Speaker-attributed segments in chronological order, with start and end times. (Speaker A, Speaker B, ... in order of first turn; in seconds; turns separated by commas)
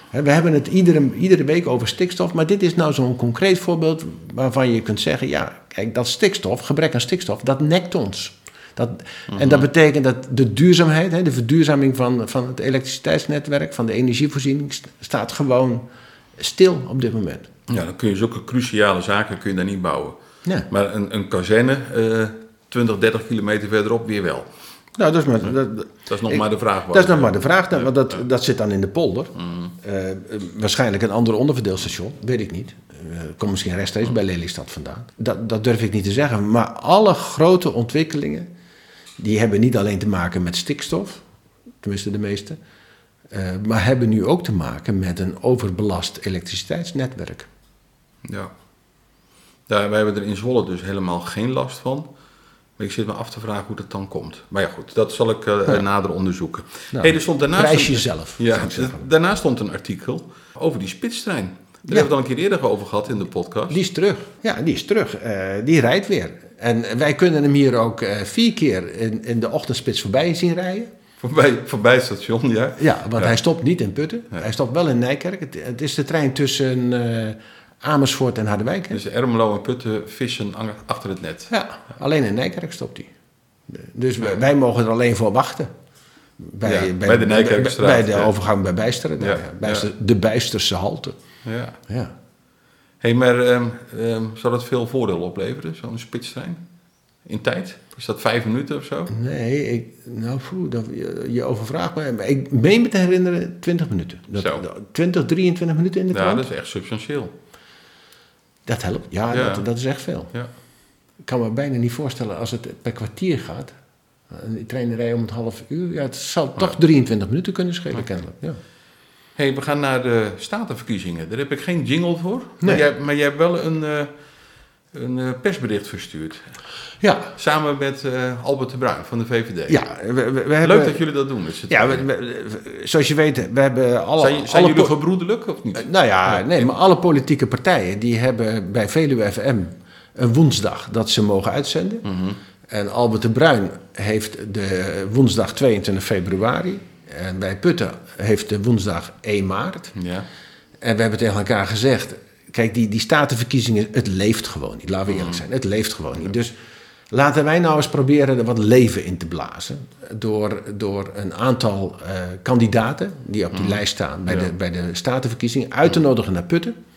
Speaker A: 0.1-15.9, Speaker B: 9.3-9.7, Speaker A: 16.4-17.5, Speaker B: 17.7-24.5, Speaker A: 25.0-38.5, Speaker B: 26.1-28.1, Speaker B: 29.4-29.7, Speaker A: 39.2-41.2, Speaker A: 41.8-42.6, Speaker A: 43.3-47.5, Speaker B: 48.2-48.5, Speaker B: 49.7-52.1, Speaker B: 52.8-63.8, Speaker A: 56.9-59.0, Speaker A: 63.7-70.9, Speaker B: 71.2-73.4, Speaker A: 72.8-79.0, Speaker B: 78.9-81.5, Speaker A: 81.5-83.1, Speaker A: 83.7-85.7, Speaker A: 86.4-91.2, Speaker B: 86.6-88.3, Speaker B: 89.2-89.9, Speaker B: 91.5-91.8, Speaker A: 91.9-92.1, Speaker B: 93.0-96.6, Speaker B: 97.3-99.1, Speaker A: 99.1-106.5, Speaker B: 104.4-104.6, Speaker B: 106.1-107.3, Speaker A: 108.7-110.3, Speaker B: 109.3-109.7, Speaker A: 111.2-113.7, Speaker A: 114.3-118.6, Speaker B: 119.4-124.1, Speaker B: 124.9-126.4, Speaker A: 127.0-127.3, Speaker B: 127.4-129.8, Speaker A: 129.7-131.0, Speaker B: 130.6-132.1, Speaker A: 131.7-134.9, Speaker B: 134.2-136.7, Speaker A: 135.8-142.1, Speaker B: 142.1-142.4, Speaker A: 142.7-149.9, Speaker B: 149.9-150.3, Speaker A: 150.8-156.5, Speaker B: 155.1-155.4, Speaker A: 157.1-166.8, Speaker B: 163.5-164.5